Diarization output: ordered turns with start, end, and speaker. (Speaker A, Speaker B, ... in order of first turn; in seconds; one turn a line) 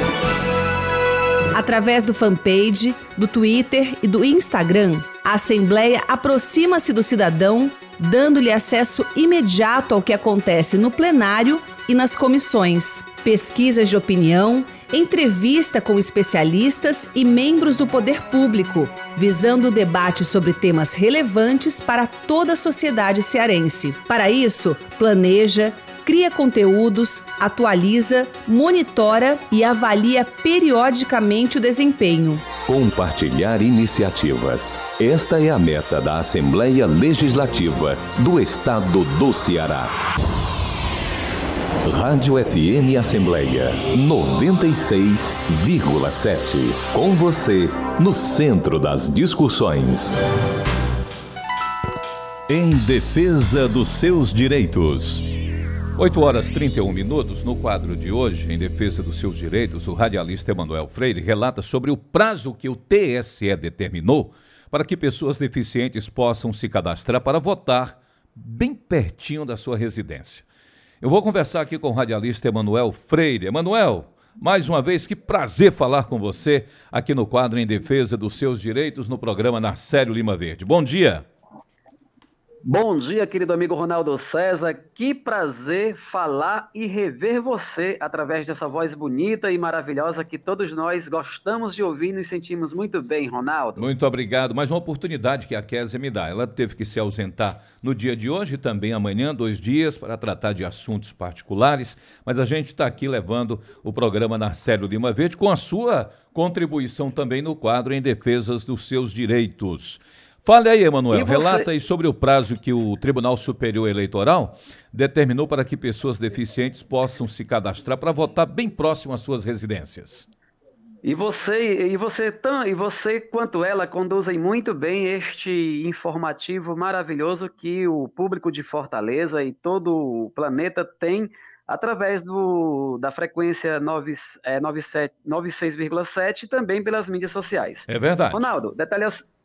Speaker A: 1.5-32.5
Speaker B: 32.6-39.9
Speaker B: 41.8-50.1
Speaker C: 52.5-55.2
Speaker C: 56.0-70.4
Speaker C: 71.0-81.2
Speaker D: 82.6-93.9
Speaker C: 93.8-120.3
Speaker D: 111.1-111.7
Speaker D: 121.0-139.2
Speaker C: 137.9-138.5